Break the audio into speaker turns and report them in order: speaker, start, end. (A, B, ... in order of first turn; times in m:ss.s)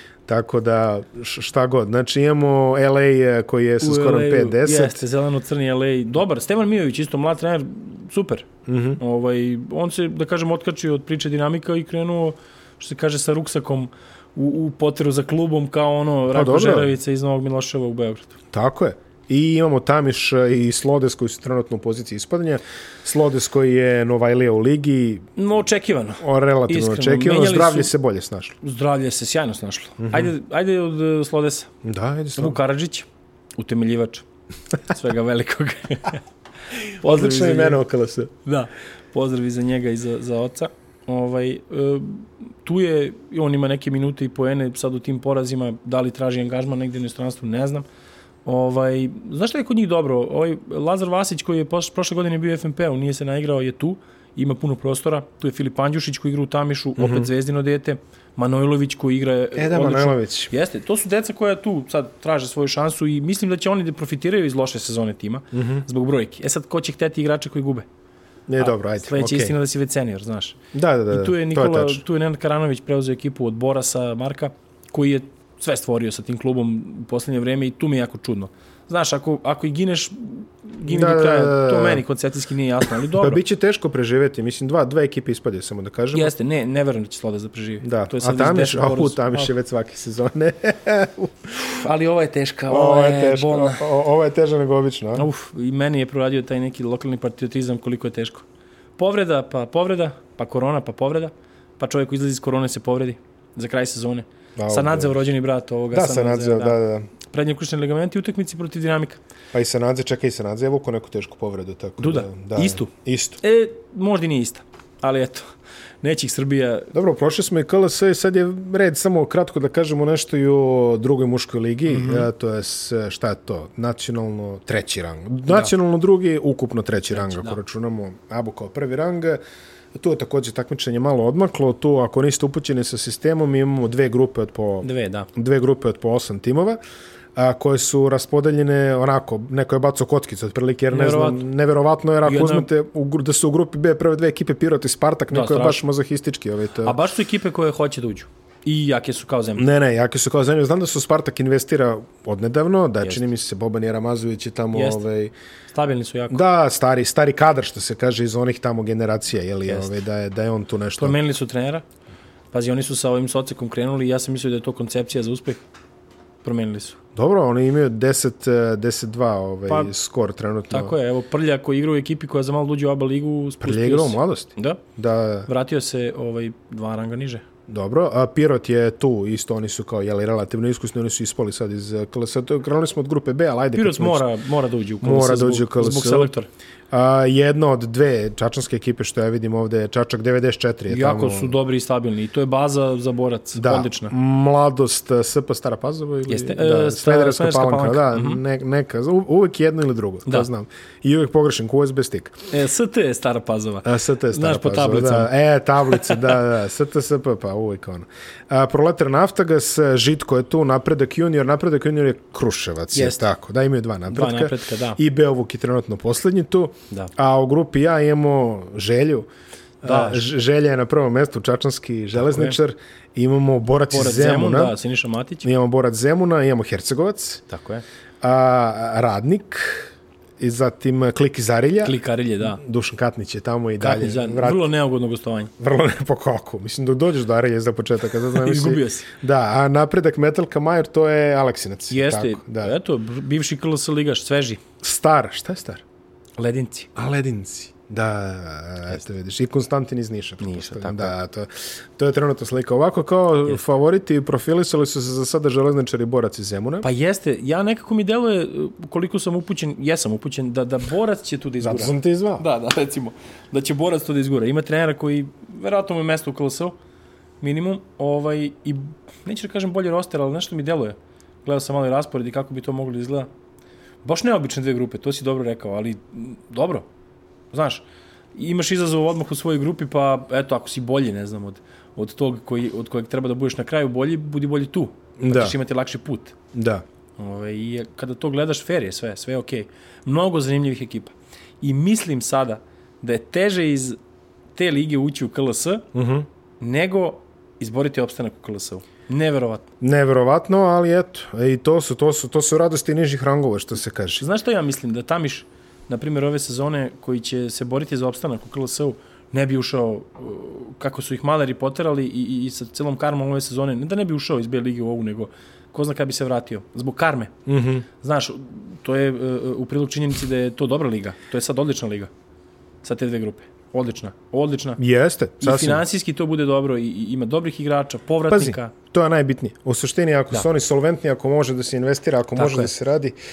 0:00.3-0:05.0 A
0:03.8-0:18.4 B
0:08.6-0:09.0 A
0:16.3-0:16.9 A
0:18.5-0:25.3 A
0:25.4-0:27.9 B
0:26.2-0:28.6 A
0:28.6-0:31.7 B
0:30.0-0:30.3 A
0:31.8-0:32.6 A
0:32.4-0:34.2 B
0:34.8-0:36.2 B
0:36.9-0:38.3 A
0:36.9-0:37.8 B
0:38.4-0:47.8 B
0:48.4-1:07.9 B
0:57.0-0:57.3 A
0:59.6-1:00.5 A
1:05.5-1:05.8 A
1:08.5-1:09.5 A
1:08.6-1:10.6 B
1:10.7-1:12.0 A
1:11.1-1:23.4 B
1:20.8-1:22.0 A
1:23.1-1:26.3 A
1:26.1-1:29.5 B
1:27.8-1:31.8 A
1:31.8-1:33.9 B
1:32.7-1:35.3 A
1:35.2-1:38.4 B
1:39.0-1:46.8 B
1:44.6-1:45.2 A
1:45.9-1:47.1 A
1:47.3-1:49.2 B
1:49.5-1:53.4 A
1:52.0-1:55.5 B
1:56.0-1:56.9 B
1:56.9-2:09.4 A
2:01.9-2:02.3 B
2:07.1-2:07.6 B
2:09.9-2:16.8 A
2:14.8-2:15.3 B
2:17.3-2:27.0 A
2:20.9-2:21.4 B
2:22.2-2:22.7 B
2:25.3-2:25.8 B
2:26.8-2:29.6 B
2:29.6-2:35.3 A
2:34.7-2:35.0 B
2:35.7-2:36.4 B
2:36.3-2:41.2 A
2:39.7-2:39.9 B
2:41.0-2:41.8 B
2:42.5-2:45.6 B
2:46.4-2:47.0 B
2:47.2-2:50.9 A
2:50.7-2:54.8 B
2:53.6-2:55.5 A
2:55.4-2:57.4 B
2:57.7-3:04.2 A
3:03.7-3:06.5 B
3:05.0-3:06.3 A
3:06.9-3:11.6 A
3:10.9-3:14.1 B
3:13.6-3:22.3 A
3:16.3-3:18.4 B
3:22.5-3:25.3 B
3:23.8-3:39.3 A
3:25.8-3:26.4 B
3:32.9-3:33.3 B
3:34.1-3:35.0 B
3:39.8-3:44.7 A
3:39.8-3:40.2 B
3:42.2-3:42.6 B
3:43.9-3:45.4 B
3:45.4-3:47.4 A
3:47.5-3:47.8 B
3:48.2-3:54.7 A
3:51.8-3:52.6 B
3:53.8-3:55.5 B
3:55.6-4:02.7 A
3:58.3-3:59.1 B
4:01.9-4:04.6 B
4:04.8-4:05.8 A
4:06.4-4:06.9 B
4:07.0-4:16.9 A
4:10.4-4:11.1 B
4:16.8-4:26.8 B
4:21.6-4:22.4 A
4:27.4-4:33.3 B
4:34.0-4:36.9 B
4:37.5-4:46.4 B
4:45.2-4:45.6 A
4:46.5-4:46.8 A
4:47.2-4:54.0 B
4:54.6-4:55.8 B
4:55.9-4:56.3 A
4:56.6-4:59.7 B
4:59.8-5:04.2 A
5:04.2-5:17.3 B
5:17.4-5:17.8 A
5:18.0-5:22.1 B
5:22.8-5:24.8 B
5:24.8-5:25.8 A
5:25.4-5:28.7 B
5:28.3-5:33.2 A
5:32.4-5:32.7 B